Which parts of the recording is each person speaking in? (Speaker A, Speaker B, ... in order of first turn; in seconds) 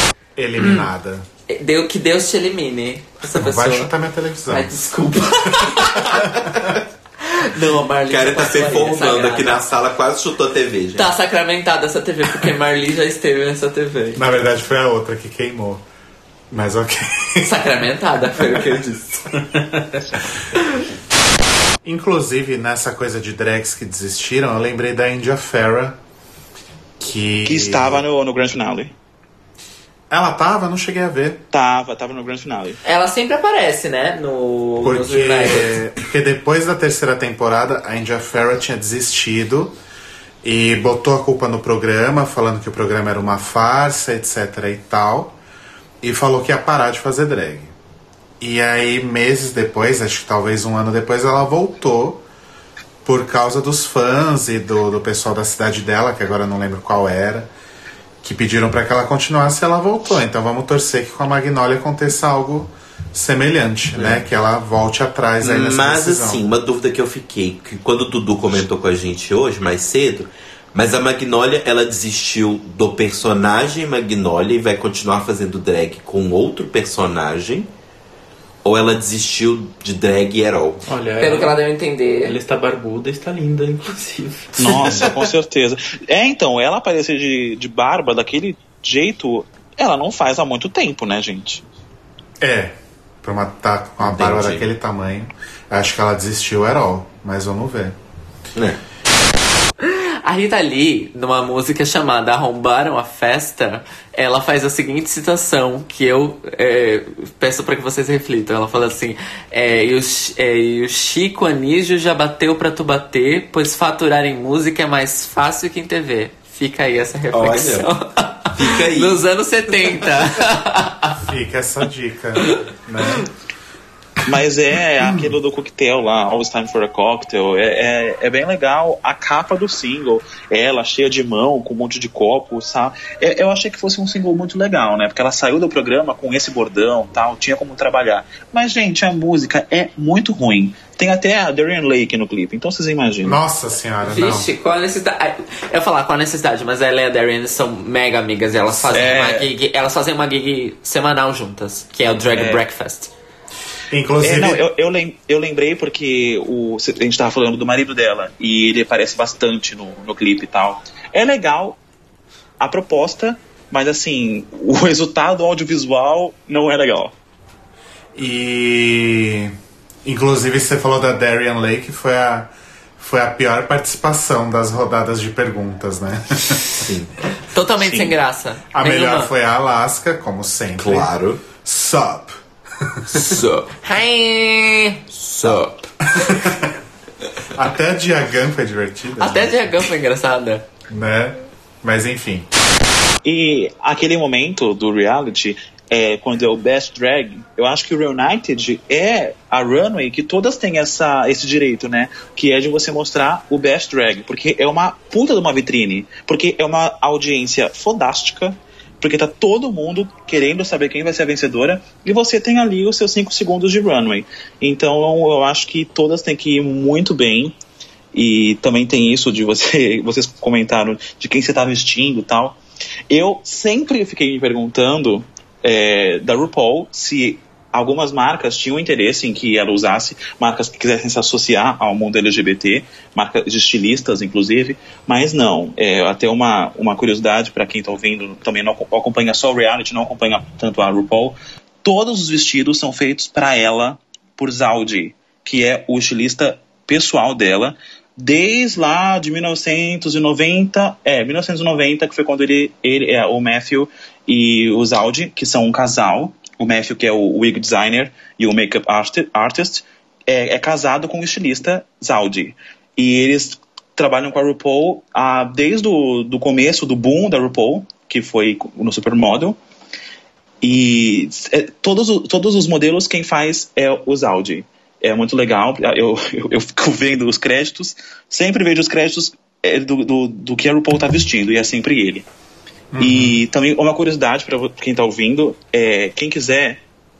Speaker A: 0.3-1.2, 3.3-4.9, 14.1-15.8, 16.5-17.5, 21.8-26.0, 27.0-28.0, 30.1-31.4, 34.8-39.8, 40.4-45.4, 46.0-47.7, 48.4-52.2, 53.0-57.5, 58.2-66.4, 92.4-98.0, 121.2-123.3, 143.2-144.5, 153.9-154.6, 168.1-169.5, 170.0-176.6, 178.7-183.1, 186.2-186.7, 187.6-189.6, 190.9-192.5, 282.9-283.4
Speaker B: 0.6-0.9, 1.5-3.9, 4.5-6.3, 7.2-9.6, 10.9-14.2, 17.4-19.2, 32.8-35.8, 81.2-82.3, 99.8-121.2, 122.4-123.2, 144.0-153.1, 177.5-179.3, 183.2-186.5, 189.2-190.7
Speaker C: 8.1-11.1, 18.5-18.9, 64.0-64.2, 65.4-77.7, 78.6-80.9, 94.0-94.6, 117.3-117.9, 118.5-119.2, 176.8-177.1, 180.8-181.4, 183.1-183.5, 185.4-185.7
Speaker D: 27.4-28.9, 31.5-32.8, 84.6-91.6, 124.2-143.4, 148.8-149.5, 154.2-161.8, 162.6-167.1, 177.8-178.1, 193.2-217.6, 218.1-222.6, 223.1-269.6, 270.6-282.2, 283.0-286.8
Speaker E: 80.9-81.6, 82.2-85.1